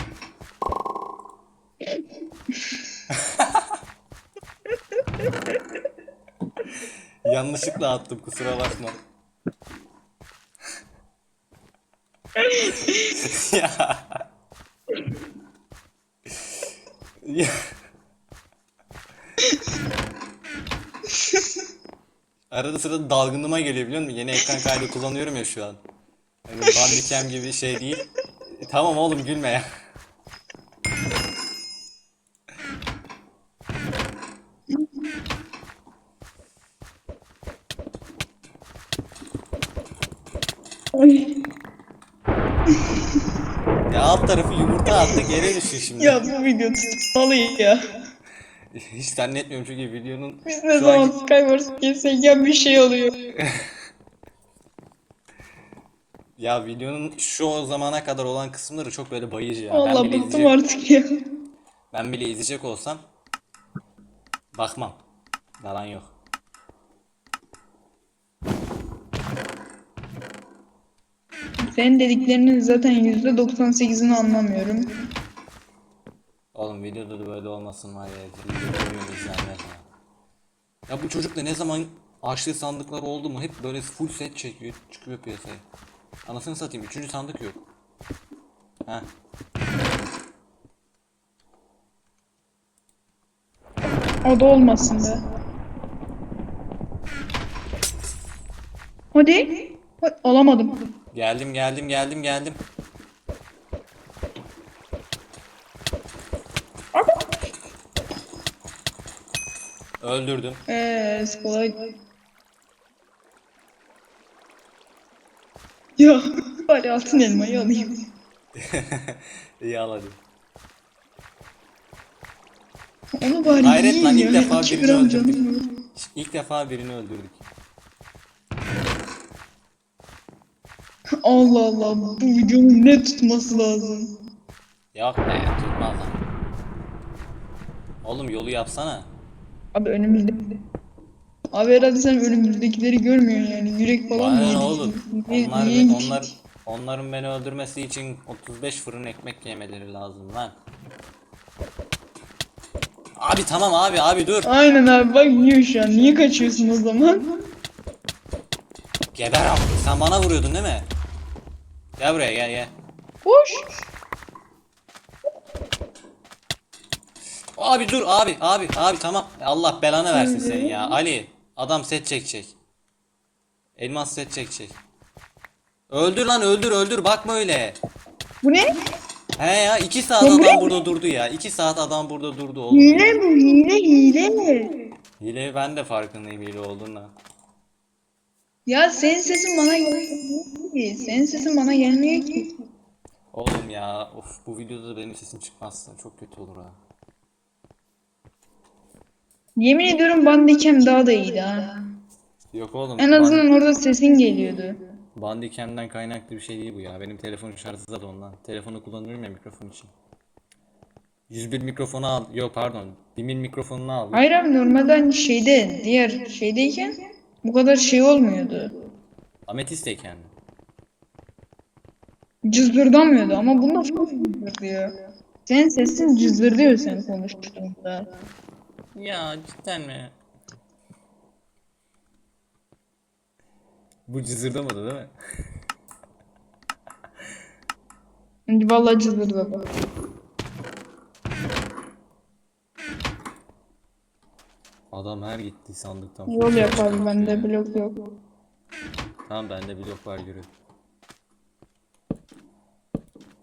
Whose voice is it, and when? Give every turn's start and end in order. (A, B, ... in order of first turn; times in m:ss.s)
0:03.1-0:03.8 A
0:07.2-0:09.0 A
0:12.4-0:13.1 B
0:12.9-0:14.2 A
0:17.2-0:17.5 A
0:22.5-0:25.8 A
0:26.4-0:28.0 A
0:28.6-0:29.6 A
0:40.9-0:41.4 B
0:43.9-0:46.2 A
0:46.0-0:47.8 B
0:48.7-0:51.2 A
0:50.4-0:53.3 B
0:53.4-0:53.7 A
0:56.4-1:00.6 A
0:59.7-1:01.2 B
1:01.9-1:03.0 A
1:04.5-1:05.0 A
1:05.6-1:06.1 A
1:11.6-1:15.0 B
1:16.5-1:19.8 A
1:20.9-1:25.6 A
1:26.2-1:27.6 A
1:34.2-1:35.2 B
1:39.1-1:40.8 B
1:41.1-1:42.6 A
1:50.0-1:50.6 A
1:50.7-1:51.8 B
1:56.0-1:58.0 B
1:58.5-2:00.2 A
2:03.2-2:05.7 B
2:03.6-2:05.4 A
2:05.9-2:07.4 A
2:11.2-2:14.1 B
2:14.9-2:16.2 A
2:18.0-2:19.1 A
2:19.7-2:20.4 B
2:21.5-2:26.2 B
2:24.1-2:30.5 A
2:33.2-2:34.5 A
2:34.4-2:37.3 B
2:39.1-2:40.9 A
2:42.0-2:42.7 A
2:43.2-2:43.7 B
2:47.6-2:52.5 A
2:50.1-2:50.8 B
2:53.8-2:54.8 A
2:55.9-2:57.8 A
2:59.4-3:03.2 A
3:00.2-3:00.7 B
3:02.7-3:04.7 B
3:05.2-3:07.1 A
3:08.6-3:12.5 B
3:13.3-3:16.8 A
3:19.6-3:21.7 B
3:22.5-3:23.4 A
3:23.0-3:24.8 B
3:25.1-3:29.9 A
3:31.3-3:34.2 A
3:34.1-3:38.7 B
3:39.5-3:40.3 A
3:42.4-3:44.9 B
3:45.4-3:48.1 B
3:48.9-3:50.1 A
3:54.0-3:55.1 A
3:58.5-3:59.7 B
4:04.9-4:07.5 A
4:06.3-4:08.0 B
4:09.2-4:10.5 A